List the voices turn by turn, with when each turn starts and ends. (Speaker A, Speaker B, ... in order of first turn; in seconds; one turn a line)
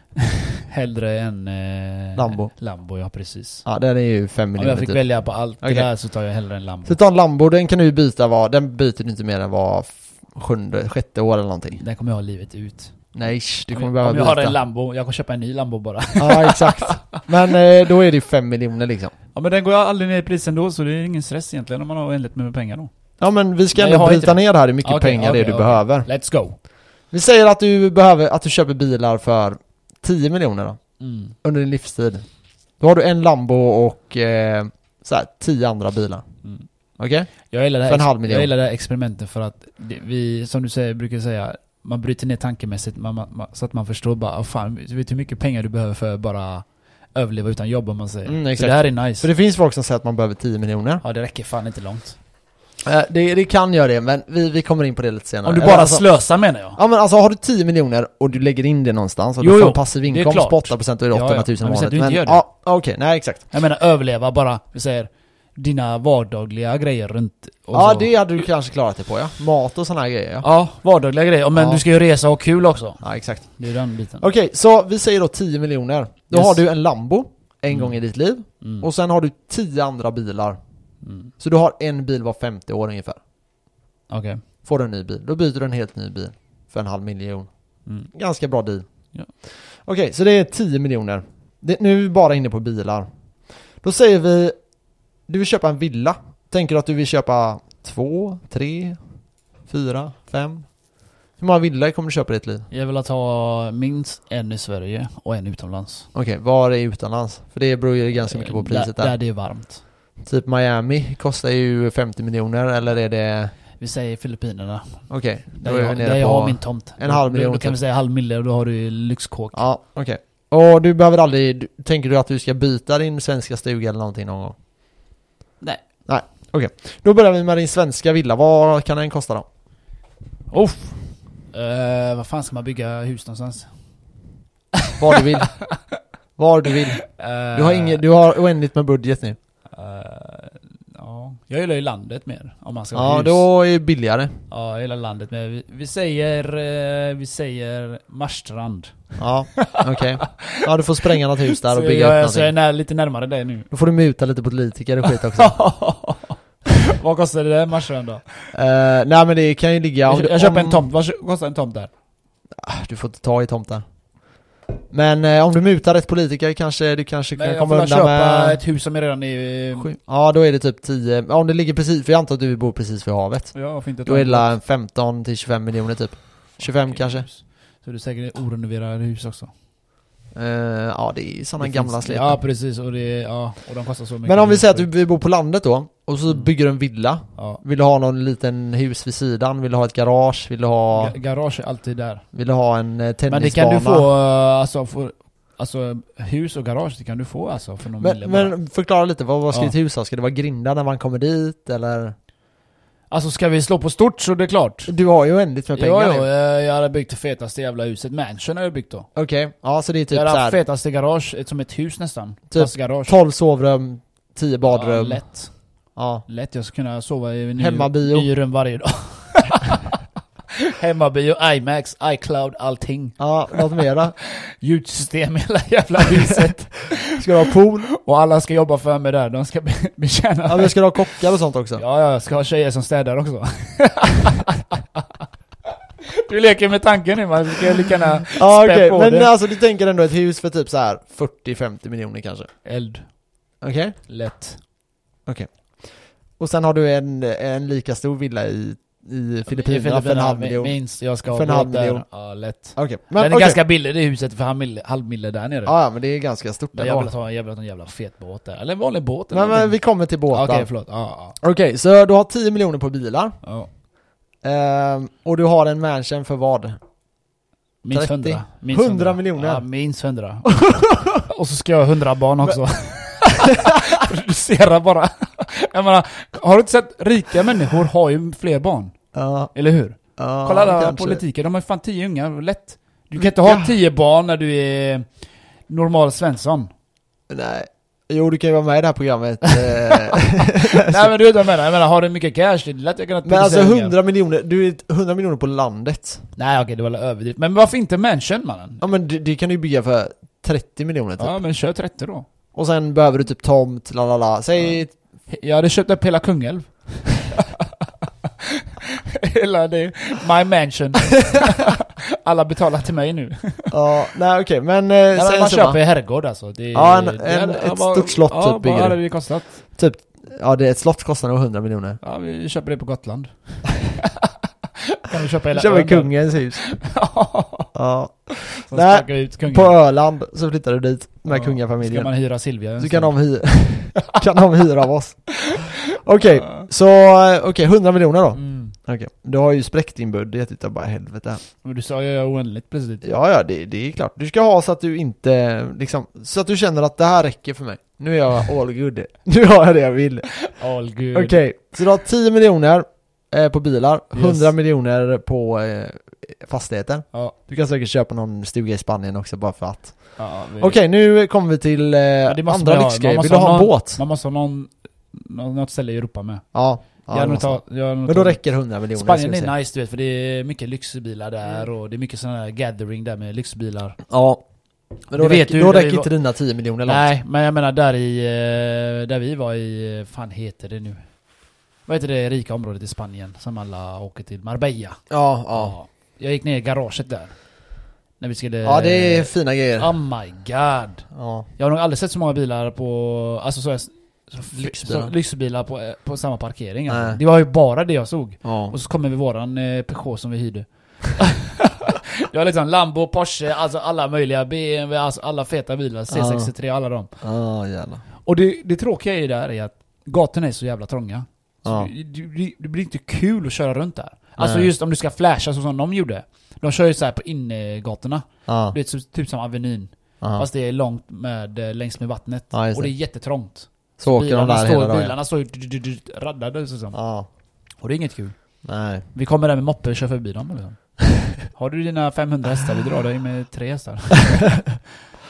Speaker A: 0.1-3.6
Speaker B: 2.1-2.5
Speaker B: 3.6-5.9
Speaker A: 4.6-7.0
Speaker B: 6.8-11.8
Speaker A: 11.8-13.1
Speaker B: 13.1-14.6
Speaker A: 13.7-17.0
Speaker B: 16.2-19.1
Speaker A: 19.3-22.9
Speaker B: 23.2-26.1
Speaker A: 23.7-26.6
Speaker B: 27.1-30.8
Speaker A: 31.0-31.3
Speaker B: 31.4-32.2
Speaker B: 32.8-36.2
Speaker B: 37.0-38.5
Speaker A: 37.5-49.3
Speaker B: 48.2-51.0
Speaker A: 51.0-52.1
Speaker B: 52.8-56.0
Speaker A: 55.4-56.8
Speaker B: 56.7-63.5
Speaker A: 59.4-62.4
Speaker A: 63.5-68.1
Speaker B: 67.7-70.5
Speaker A: 70.4-74.2
Speaker B: 71.5-71.8
Speaker B: 73.0-73.6
Speaker B: 74.2-80.6
Speaker A: 76.3-76.6
Speaker A: 77.7-78.0
Speaker A: 78.6-78.9
Speaker A: 81.0-81.3
Speaker B: 81.4-83.2
Speaker A: 84.1-84.4
Speaker B: 84.6-87.5
Speaker A: 87.8-88.1
Speaker B: 88.1-88.9
Speaker B: 89.4-94.6
Speaker B: 95.2-99.0
Speaker B: 99.6-102.7
Speaker A: 102.7-106.1
Speaker B: 106.1-109.1
Speaker A: 108.2-109.8
Speaker B: 110.2-113.5
Speaker A: 113.8-119.6
Speaker B: 115.1-117.8
Speaker B: 119.5-124.5
Speaker B: 126.0-129.4
Speaker A: 130.5-133.7
Speaker B: 135.0-135.6
Speaker B: 136.4-139.4
Speaker A: 137.0-138.0
Speaker A: 139.7-143.4
Speaker B: 142.9-144.4
Speaker A: 144.5-150.6
Speaker B: 149.2-152.5
Speaker A: 151.2-153.7
Speaker B: 153.7-155.5
Speaker A: 155.2-158.4
Speaker B: 158.5-160.9
Speaker A: 160.1-161.9
Speaker B: 162.6-163.8
Speaker B: 164.9-168.6
Speaker A: 167.3-169.9
Speaker B: 169.8-177.3
Speaker A: 173.5-174.5
Speaker A: 176.6-179.5
Speaker B: 180.3-182.4
Speaker A: 181.6-184.9
Speaker B: 184.2-191.1
Speaker A: 190.9-192.2
Speaker B: 192.3-194.1
Speaker A: 193.3-198.6
Speaker B: 198.0-202.1
Speaker A: 203.1-204.9
Speaker B: 204.9-206.3
Speaker A: 205.7-209.1
Speaker B: 209.1-210.6
Speaker A: 210.1-213.1
Speaker B: 212.5-215.2
Speaker A: 214.6-215.5
Speaker B: 215.9-216.2
Speaker A: 216.3-220.0
Speaker B: 217.6-218.3
Speaker A: 220.6-227.2
Speaker B: 223.2-224.1
Speaker B: 227.0-227.9
Speaker A: 227.9-231.0
Speaker B: 230.5-231.8
Speaker A: 231.8-235.2
Speaker A: 236.0-239.3
Speaker B: 238.3-242.5
Speaker A: 242.6-243.2
Speaker B: 243.6-243.9
Speaker A: 244.1-244.6
Speaker B: 245.2-252.1
Speaker A: 249.5-255.7
Speaker B: 252.7-253.6
Speaker B: 255.6-257.1
Speaker A: 256.7-261.4
Speaker B: 259.3-260.7
Speaker B: 261.4-263.4
Speaker A: 263.4-263.7
Speaker B: 264.4-266.8
Speaker A: 267.8-279.0
Speaker B: 267.9-269.6
Speaker B: 270.6-271.1
Speaker B: 279.1-279.5
Speaker A: 279.5-285.1
Speaker B: 280.2-281.2
Speaker B: 283.2-283.7
Speaker A: 285.7-286.7
Speaker B: 287.3-291.1
Speaker A: 290.6-293.9
Speaker B: 293.2-296.2
Speaker A: 296.4-298.8
Speaker B: 298.8-301.3
Speaker A: 301.2-302.3
Speaker B: 302.5-304.9
Speaker A: 305.3-313.7
Speaker B: 313.7-315.8
Speaker A: 315.1-319.6
Speaker B: 316.7-322.0
Speaker A: 322.0-324.3
Speaker A: 324.8-327.7
Speaker B: 325.5-326.6
Speaker B: 327.7-332.1
Speaker A: 328.5-329.7
Speaker A: 331.2-333.2
Speaker B: 332.8-341.4
Speaker A: 336.2-336.7
Speaker A: 338.3-338.8
Speaker A: 341.6-343.1
Speaker B: 343.0-350.4
Speaker A: 350.5-351.4
Speaker B: 351.1-364.0
Speaker A: 354.1-354.5
Speaker A: 360.2-360.8
Speaker A: 362.2-366.4
Speaker B: 366.5-369.5
Speaker A: 367.0-374.0
Speaker B: 374.1-377.1
Speaker A: 375.1-376.1
Speaker A: 376.8-381.0
Speaker A: 381.9-387.4
Speaker B: 385.1-385.7
Speaker A: 388.2-407.1
Speaker B: 388.6-389.9
Speaker B: 391.1-391.5
Speaker B: 394.5-395.1
Speaker B: 396.9-397.2
Speaker B: 398.4-398.7
Speaker B: 406.1-406.5
Speaker B: 407.2-408.0
Speaker A: 408.2-427.0
Speaker B: 411.6-411.9
Speaker B: 414.4-414.7
Speaker B: 418.5-418.8
Speaker B: 420.2-420.4
Speaker B: 422.5-422.9
Speaker B: 424.0-425.1
Speaker B: 426.9-427.3
Speaker A: 427.8-428.5
Speaker B: 428.6-429.1
Speaker A: 429.1-430.9
Speaker A: 431.4-434.7